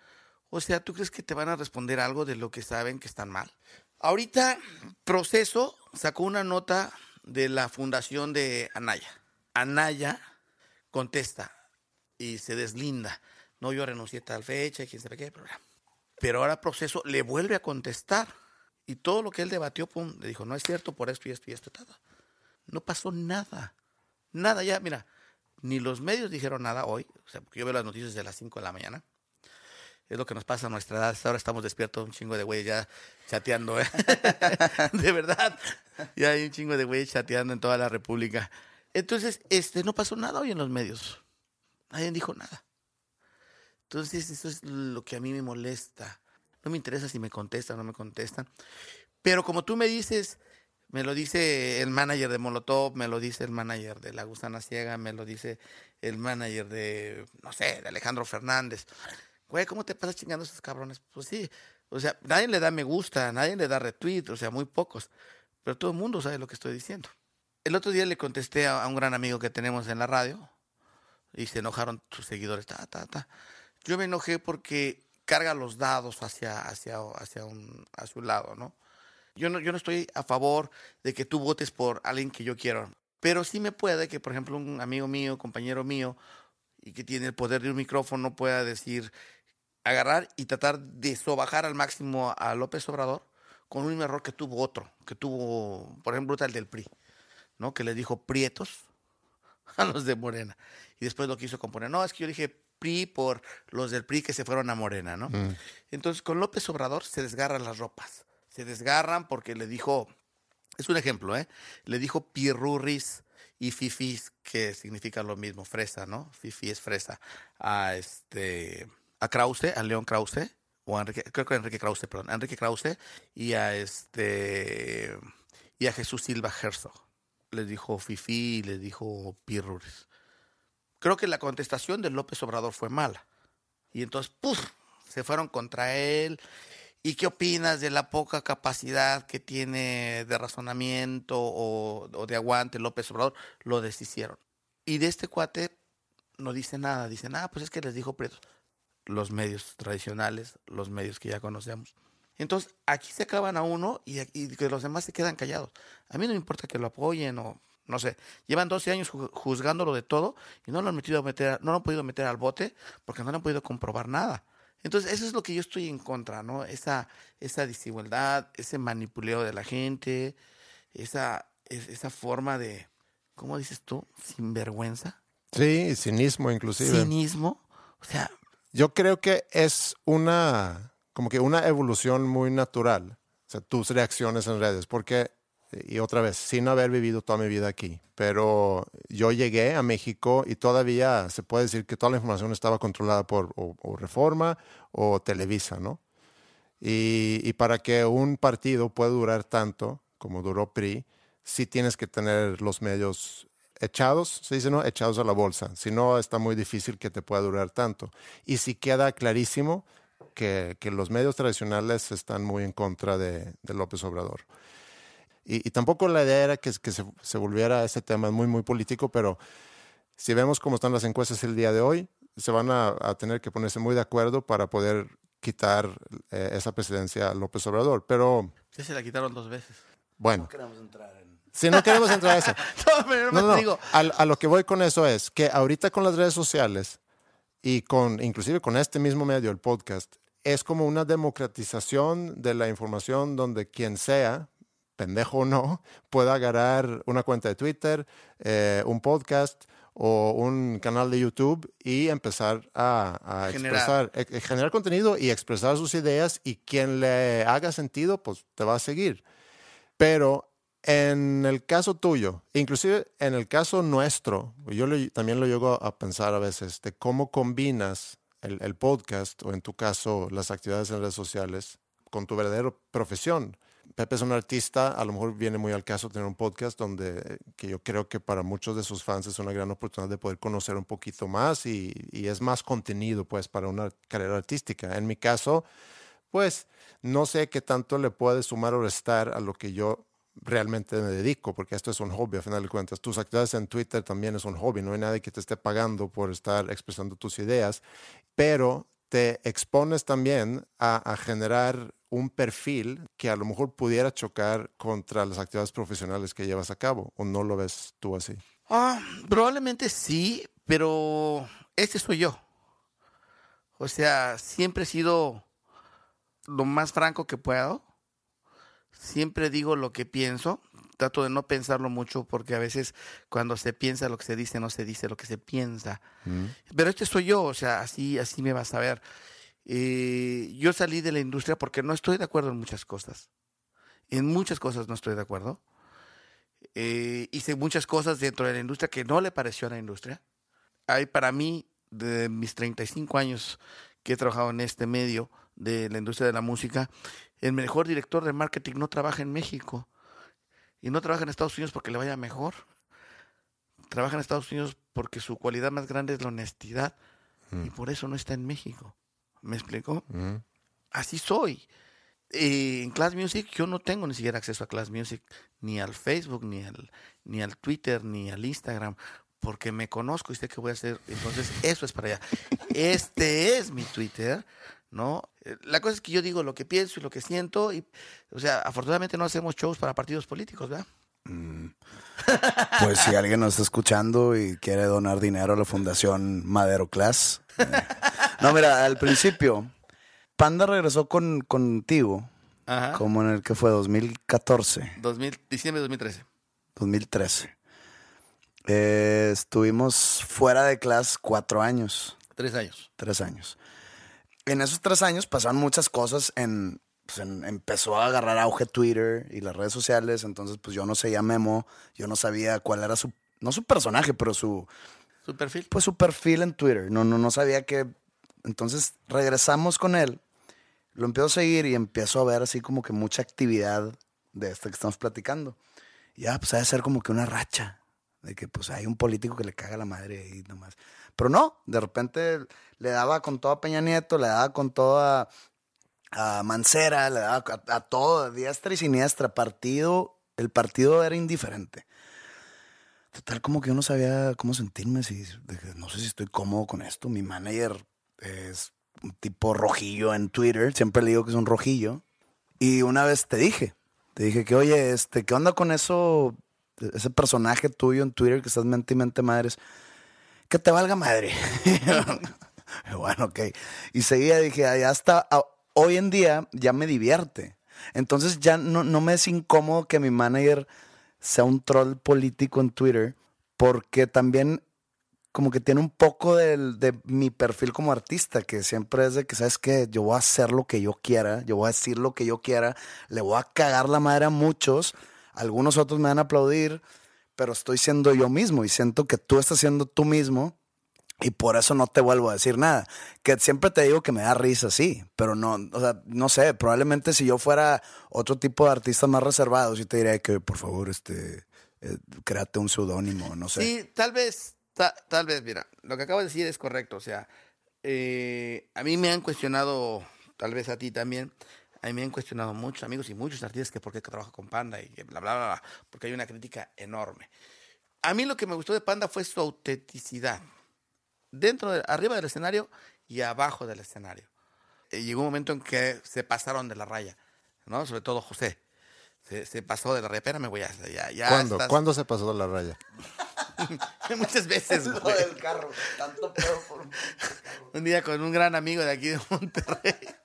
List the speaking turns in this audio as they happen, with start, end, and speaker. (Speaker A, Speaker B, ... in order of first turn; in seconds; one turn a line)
Speaker A: 0.5-10.2
Speaker A: 10.9-11.5
Speaker A: 12.2-15.6
Speaker A: 16.2-18.3
Speaker A: 18.9-22.0
Speaker A: 22.7-23.7
Speaker A: 24.3-25.0
Speaker A: 25.6-29.0
Speaker A: 30.1-35.6
Speaker A: 36.1-41.2
Speaker A: 41.9-42.6
Speaker A: 43.9-48.5
Speaker A: 49.2-50.4
Speaker A: 50.9-58.9
Speaker A: 59.5-65.1
Speaker A: 65.6-67.1
Speaker A: 67.6-70.5
Speaker A: 71.3-73.3
Speaker A: 73.8-78.7
Speaker A: 79.4-86.2
Speaker A: 86.8-89.1
Speaker A: 89.8-96.9
Speaker A: 97.6-98.8
Speaker A: 99.8-105.3
Speaker B: 105.3-105.6
Speaker A: 105.9-110.1
Speaker A: 110.8-125.2
Speaker A: 125.8-127.0
Speaker A: 127.5-130.1
Speaker A: 131.0-133.2
Speaker A: 133.9-136.4
Speaker A: 137.0-145.7
Speaker A: 146.4-148.4
Speaker A: 149.1-170.4
Speaker A: 170.9-175.2
Speaker B: 175.5-177.1
Speaker A: 176.8-178.3
Speaker B: 178.7-196.0
Speaker B: 196.8-214.5
Speaker B: 215.4-219.4
Speaker B: 220.2-228.5
Speaker A: 228.7-229.8
Speaker B: 230.2-230.5
Speaker C: 230.3-231.4
Speaker B: 231.5-232.6
Speaker A: 231.7-233.9
Speaker B: 233.3-237.0
Speaker B: 237.6-259.2
Speaker A: 253.4-254.0
Speaker B: 260.0-285.6
Speaker B: 286.3-297.8
Speaker B: 298.4-308.4
Speaker A: 308.7-312.4
Speaker A: 313.8-315.4
Speaker A: 316.5-317.8
Speaker A: 318.9-326.0
Speaker B: 326.2-326.5
Speaker A: 326.7-329.0
Speaker A: 329.6-333.3
Speaker A: 334.1-335.6
Speaker A: 336.8-340.2
Speaker A: 340.9-346.9
Speaker A: 347.4-349.9
Speaker A: 350.8-352.6
Speaker A: 353.9-356.9
Speaker A: 357.6-360.1
Speaker B: 360.1-360.4
Speaker A: 360.9-361.6
Speaker A: 362.3-380.9
Speaker C: 381.2-381.7
Speaker A: 382.3-383.0
Speaker C: 382.7-389.7
Speaker C: 390.4-392.3
Speaker A: 392.7-393.0
Speaker C: 392.9-394.9
Speaker A: 395.0-396.2
Speaker C: 396.8-397.5
Speaker C: 398.7-402.2
Speaker A: 402.4-402.9
Speaker C: 403.0-403.6
Speaker C: 404.4-414.7
Speaker A: 415.2-415.7
Speaker C: 415.7-417.9
Speaker C: 418.4-420.2
Speaker C: 420.9-425.6
Speaker C: 426.2-435.3
Speaker C: 436.1-441.9
Speaker C: 443.1-452.0
Speaker C: 452.6-459.6
Speaker C: 460.5-462.3
Speaker C: 462.9-470.7
Speaker C: 471.2-474.6
Speaker C: 475.3-486.8
Speaker C: 487.4-490.5
Speaker C: 491.2-503.7
Speaker A: 503.5-507.3
Speaker A: 507.8-517.3
Speaker A: 518.0-520.4
Speaker A: 521.3-524.3
Speaker A: 524.9-528.6
Speaker A: 529.2-531.8
Speaker B: 531.2-532.8
Speaker A: 533.6-535.4
Speaker C: 534.7-537.1
Speaker A: 537.7-540.1